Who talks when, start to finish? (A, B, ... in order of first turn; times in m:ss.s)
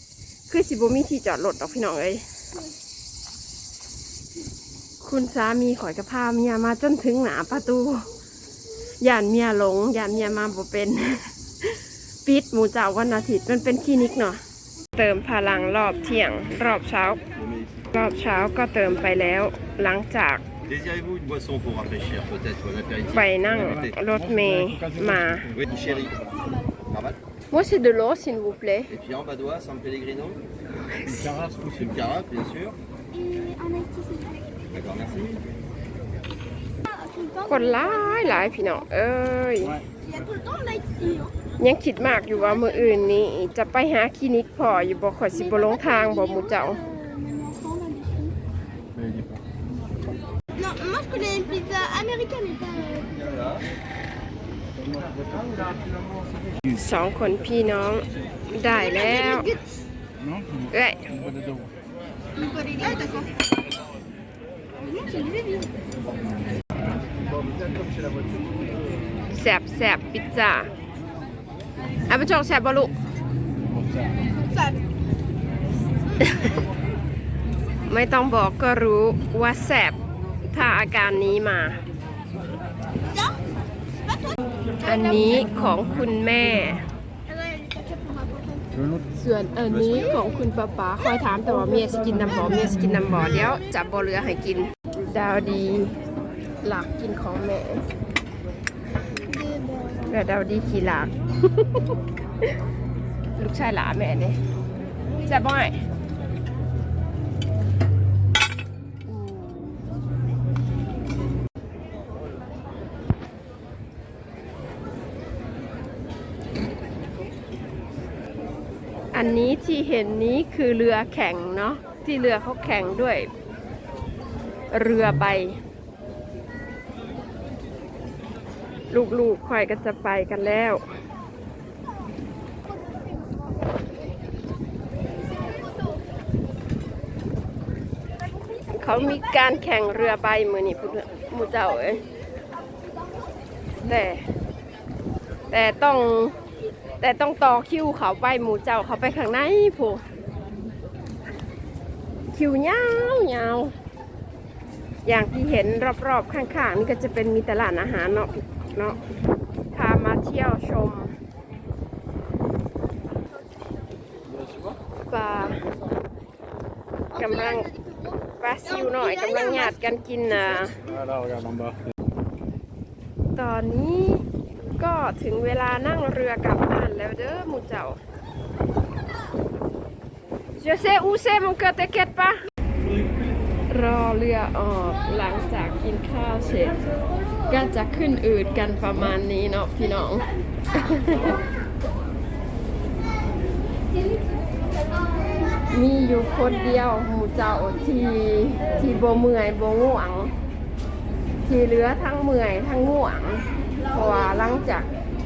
0:00.5-0:02.2 A
0:05.0-0:08.0 A
0:09.0-0:14.4 A
0:15.0-0:17.2 A
0:17.4-0:17.7 B
0:17.9-0:20.4 A
0:20.7-0:23.3 B
0:23.1-0:25.5 A
0:25.5-0:26.2 B
0:26.9-0:27.2 B
0:27.5-0:28.9 A
0:28.9-0:30.4 B
0:30.7-0:31.4 A
0:31.3-0:31.8 C
0:31.7-0:32.8 B
0:33.1-0:34.4 D
0:34.7-0:35.4 B
0:36.9-0:38.7 D
0:37.5-0:39.8 A
0:40.0-0:41.3 D
0:41.6-0:46.8 A
0:45.4-0:48.4 D
0:49.0-0:49.4 C
0:50.6-0:53.1 D
0:55.0-0:55.8 C
0:56.7-0:59.5 A
0:58.7-0:59.6 D
1:00.7-1:01.3 A
1:02.3-1:03.3 D
1:04.8-1:05.7 D
1:09.3-1:10.7 A
1:12.1-1:12.9 A
1:14.5-1:14.8 D
1:17.9-1:20.0 A
1:20.5-1:21.8 A
1:23.1-1:23.4 D
1:24.1-1:24.4 D
1:24.8-1:26.9 A
1:27.3-1:28.7 D
1:29.1-1:36.0 A
1:36.6-1:37.8 A
1:39.3-1:40.1 D
1:40.0-1:41.9 A
1:43.4-1:44.4 A
1:45.2-1:45.8 A
1:59.1-2:03.3 A
2:04.7-2:05.6 A
2:08.9-2:10.8 A
2:18.7-2:22.0 A
2:23.8-2:24.2 A
2:25.5-2:26.4 A
2:27.0-2:30.0 A
2:32.3-2:33.7 A
2:35.0-2:39.0 A
2:39.7-2:41.1 A
2:44.4-2:44.7 C
2:45.1-2:45.6 A
2:47.1-2:48.2 D
2:47.1-2:47.7 A
2:48.4-2:50.8 A
2:48.7-2:49.8 D
2:50.8-2:51.8 C
2:53.3-2:54.2 A
2:54.8-2:58.0 A
3:00.6-3:02.4 A
3:03.7-3:06.8 A
3:07.5-3:11.4 A
3:15.6-3:20.3 A
3:21.4-3:24.9 A